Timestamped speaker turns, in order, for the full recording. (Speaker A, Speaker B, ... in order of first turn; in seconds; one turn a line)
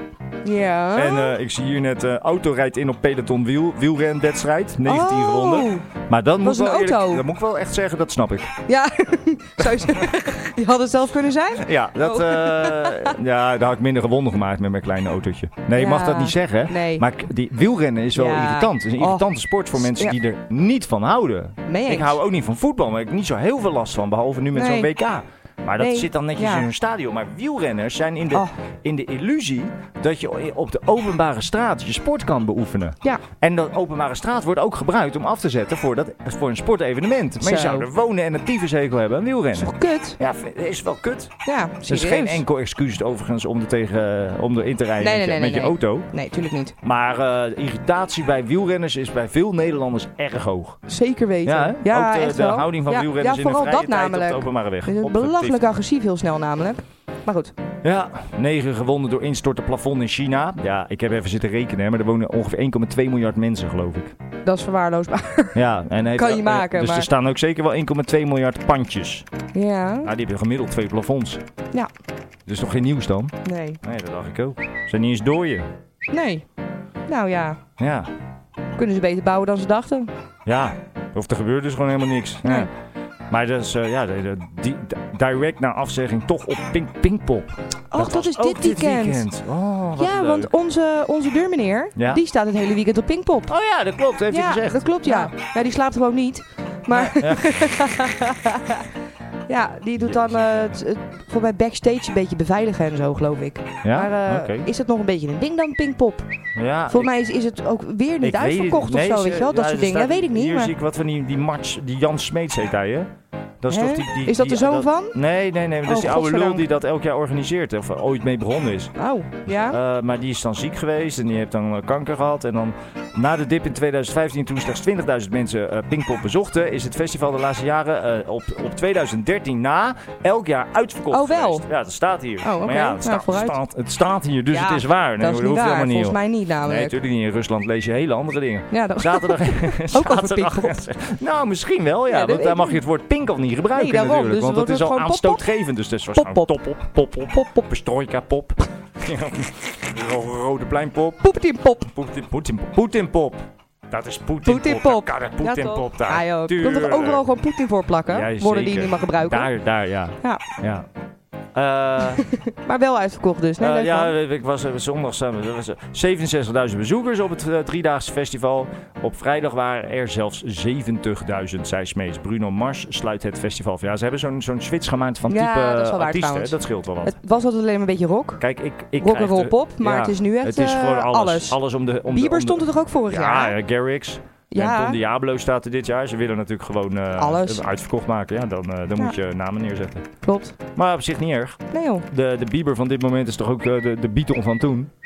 Speaker A: 0.5-1.4
Speaker B: 0.9-8.5
Speaker A: 4.8-5.9
Speaker A: 6.4-7.3
Speaker A: 8.7-13.2
Speaker B: 9.6-10.1
Speaker B: 11.6-41.3
Speaker A: 15.8-17.1
Speaker A: 18.1-20.2
Speaker A: 21.7-22.2
Speaker A: 24.5-24.9
Speaker A: 25.8-26.7
Speaker A: 37.4-37.9
Speaker A: 39.6-40.2
Speaker A: 41.5-42.4
Speaker B: 41.9-46.1
Speaker A: 45.0-46.8
Speaker B: 46.8-50.8
Speaker A: 50.9-57.5
Speaker B: 51.4-55.6
Speaker B: 57.8-64.1
Speaker A: 64.5-65.6
Speaker B: 65.5-69.3
Speaker A: 66.1-67.1
Speaker A: 69.5-70.1
Speaker B: 70.0-71.4
Speaker B: 72.5-75.7
Speaker A: 73.4-73.8
Speaker A: 76.1-76.5
Speaker A: 77.1-77.6
Speaker B: 77.8-78.1
Speaker A: 78.8-80.1
Speaker B: 80.5-82.7
Speaker A: 82.4-82.7
Speaker B: 83.3-90.5
Speaker A: 87.9-89.3
Speaker A: 90.0-93.5
Speaker B: 92.0-92.2
Speaker B: 93.5-95.3
Speaker A: 94.3-98.8
Speaker B: 96.9-97.8
Speaker A: 99.5-106.3
Speaker B: 100.0-100.7
Speaker B: 103.8-104.7
Speaker B: 106.6-107.1
Speaker A: 106.9-110.7
Speaker B: 108.2-113.1
Speaker B: 113.6-118.9
Speaker A: 113.7-115.2
Speaker A: 115.9-116.6
Speaker A: 119.0-119.8
Speaker B: 119.5-151.3
Speaker A: 131.1-131.7
Speaker A: 132.4-133.6
Speaker A: 134.5-136.9
Speaker A: 138.7-140.8
Speaker A: 142.1-142.8
Speaker A: 143.7-145.4
Speaker A: 146.1-146.6
Speaker A: 151.2-151.9
Speaker B: 151.8-157.3
Speaker A: 154.4-159.5
Speaker B: 158.1-160.9
Speaker B: 161.5-162.2
Speaker A: 162.6-164.1
Speaker B: 163.6-177.2
Speaker A: 175.3-178.4
Speaker B: 178.4-190.1
Speaker A: 179.0-183.6
Speaker A: 184.5-185.0
Speaker A: 187.2-187.6
Speaker A: 190.2-190.6
Speaker B: 190.8-194.9
Speaker A: 191.7-192.1